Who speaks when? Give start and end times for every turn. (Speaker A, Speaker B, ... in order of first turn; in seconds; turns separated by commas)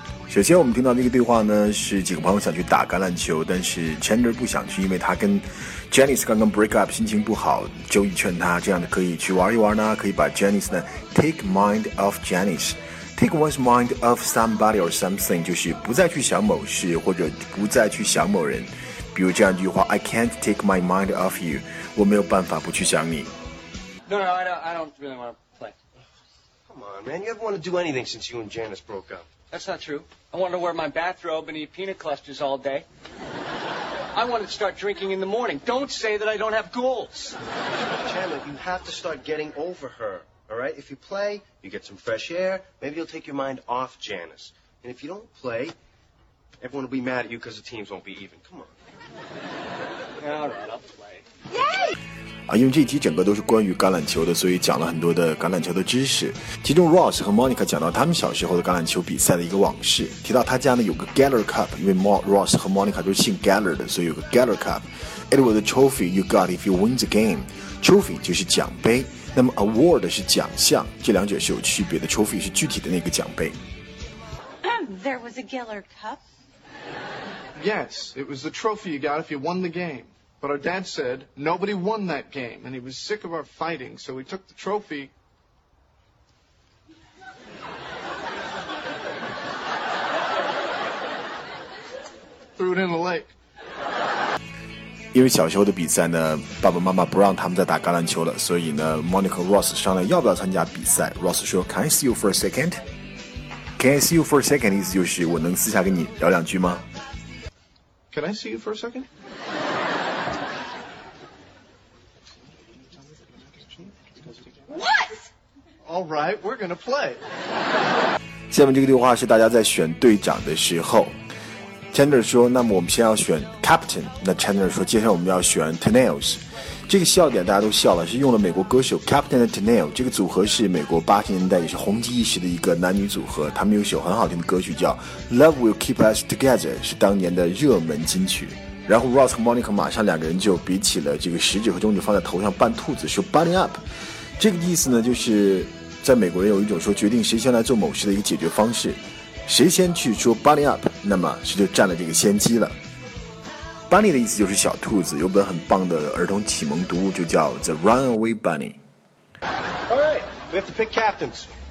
Speaker A: 0.3-23.3, Speaker B: 24.1-25.7, Speaker C: 26.7-29.2, Speaker B: 29.5-32.8, Speaker B: 34.1-37.4, Speaker C: 38.0-45.8, Speaker C: 46.6-48.7, Speaker B: 50.2-50.9, Speaker D: 51.5-51.9, Speaker A: 52.5-73.6, Speaker D: 75.0-76.2, Speaker E: 77.6-85.1, Speaker E: 92.6-93.3, Speaker A: 95.1-102.8, Speaker A: 103.8-106.8, Speaker E: 108.1-109.1, Speaker E: 113.1-114.2, Speaker D: 114.8-115.2, Speaker E: 115.8-117.2, Speaker A: 118.5-121.1, Speaker A: 121.9-143.8, Speaker A: 144.4-152.7, Speaker A: 153.9-158.8, Speaker C: 159.9-161.5